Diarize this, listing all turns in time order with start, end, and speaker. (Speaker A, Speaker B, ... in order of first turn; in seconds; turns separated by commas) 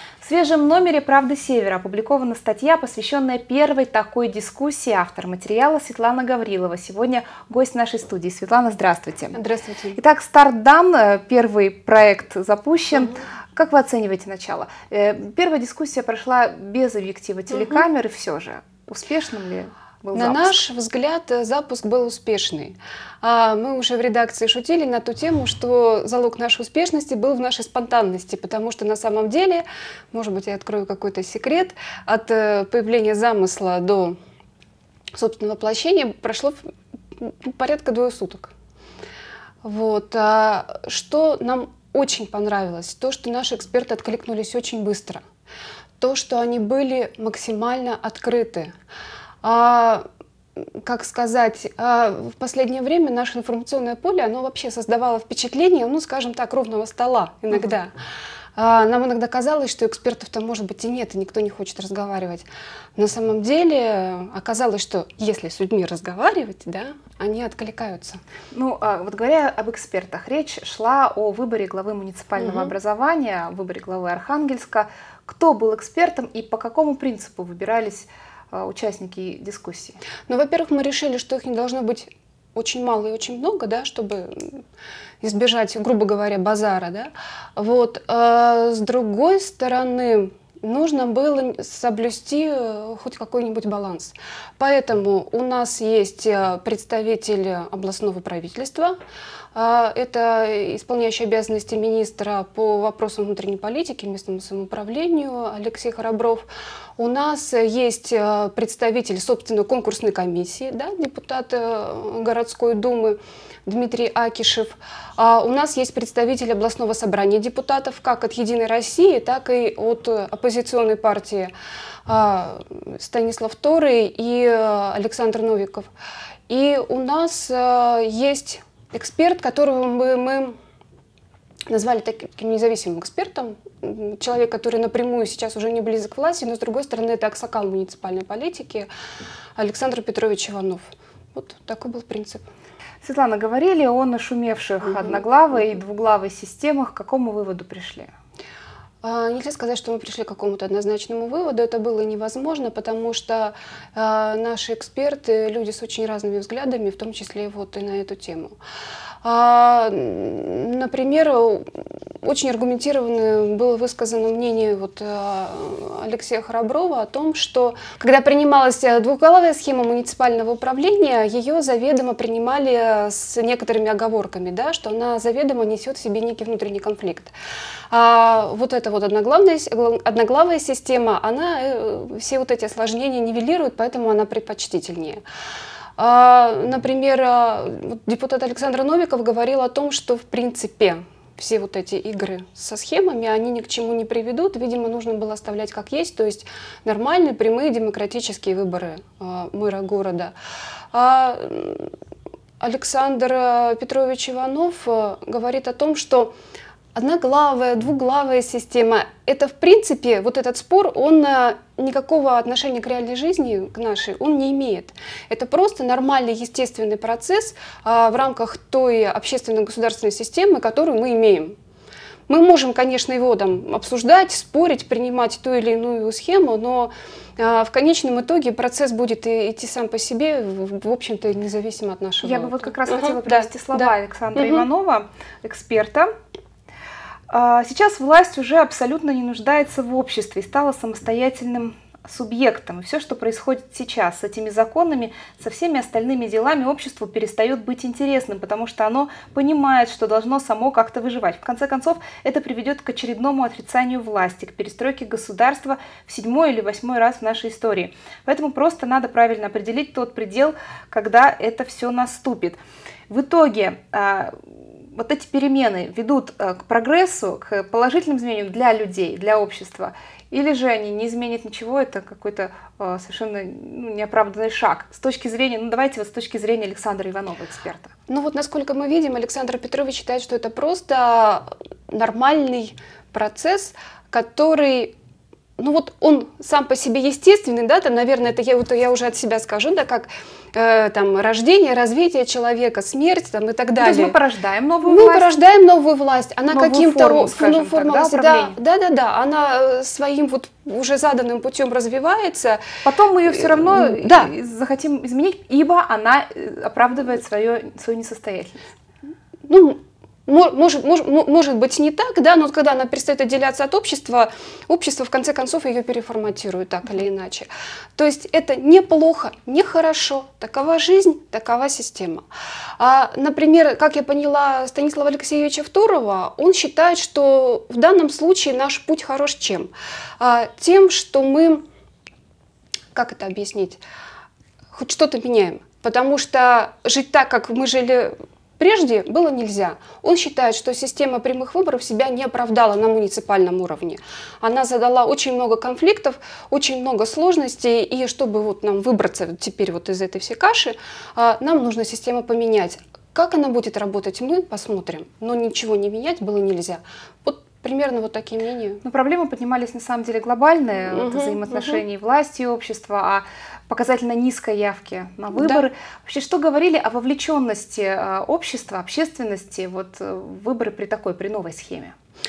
Speaker A: 0.2-9.4, Speaker B: 9.3-10.0, Speaker A: 9.9-20.6, Speaker B: 20.1-34.2, Speaker B: 35.1-36.6, Speaker B: 37.2-38.5, Speaker B: 39.6-45.2, Speaker B: 46.0-48.7, Speaker B: 49.4-50.0, Speaker B: 50.8-57.9, Speaker B: 58.5-68.2, Speaker A: 68.5-80.0, Speaker B: 80.3-84.6, Speaker B: 85.2-99.0, Speaker B: 99.5-106.5, Speaker B: 107.0-121.5, Speaker B: 122.1-125.9, Speaker B: 126.5-130.6, Speaker B: 131.7-138.9, Speaker B: 139.6-142.5, Speaker A: 143.0-148.1, Speaker B: 149.0-158.6, Speaker B: 159.2-177.3, Speaker B: 177.9-185.2, Speaker B: 186.0-200.3, Speaker B: 200.9-201.9, Speaker B: 202.6-206.3, Speaker B: 206.9-221.6, Speaker B: 222.3-234.6, Speaker A: 232.2-236.1, Speaker A: 237.3-264.4, Speaker A: 264.9-277.9, Speaker B: 278.1-284.9, Speaker B: 285.6-294.2, Speaker A: 293.8-295.4, Speaker B: 294.8-302.6, Speaker A: 296.5-298.6, Speaker A: 302.8-308.7, Speaker B: 303.3-304.3, Speaker B: 309.5-322.2, Speaker B: 322.8-331.6, Speaker B: 332.9-333.8, Speaker B: 334.7-358.8, Speaker A: 358.8-371.9, Speaker B: 360.9-361.8, Speaker B: 365.4-365.6